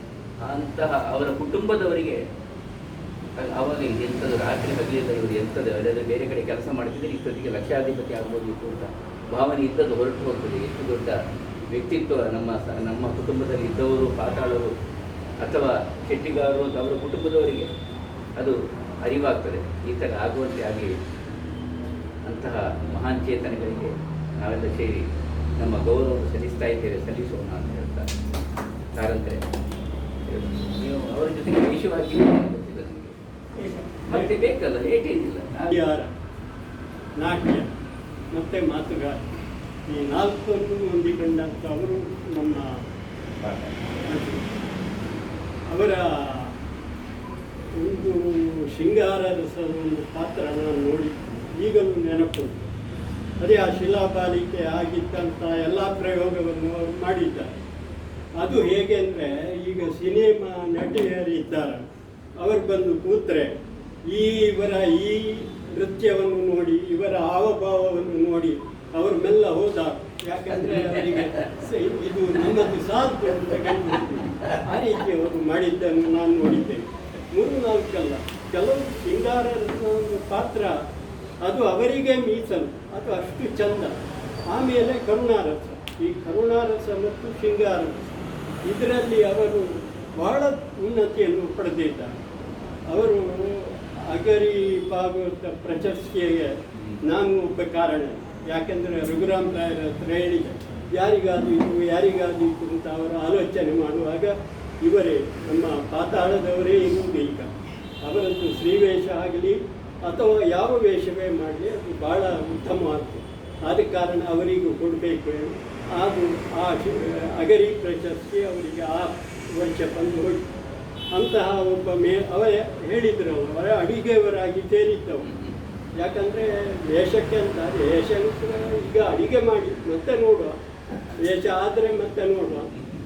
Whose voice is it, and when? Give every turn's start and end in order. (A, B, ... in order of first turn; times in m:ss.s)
0:00.4-0:02.2 A
0:03.4-0:11.2 A
0:11.7-0:14.7 A
0:15.4-0:17.7 A
0:18.4-0:21.0 A
0:22.2-0:25.0 A
0:25.6-0:28.1 A
0:28.9-0:29.4 A
0:30.2-0:33.1 A
0:34.1-0:35.7 A
0:35.7-0:36.1 B
0:37.2-0:37.7 B
0:38.3-0:39.3 B
0:39.9-0:42.8 B
0:44.0-0:44.4 B
0:45.7-0:46.5 B
0:47.8-0:52.6 B
0:53.4-0:57.5 B
0:58.4-1:01.8 B
1:02.4-1:03.5 B
1:04.1-1:20.7 B
1:10.6-1:11.3 A
1:21.4-1:24.0 B
1:24.5-1:28.0 B
1:28.6-1:32.1 B
1:32.9-1:36.5 B
1:37.1-1:47.5 B
1:48.0-2:00.5 B
2:01.1-2:05.2 B
2:05.2-2:05.5 A
2:06.0-2:10.5 B
2:11.2-2:12.7 B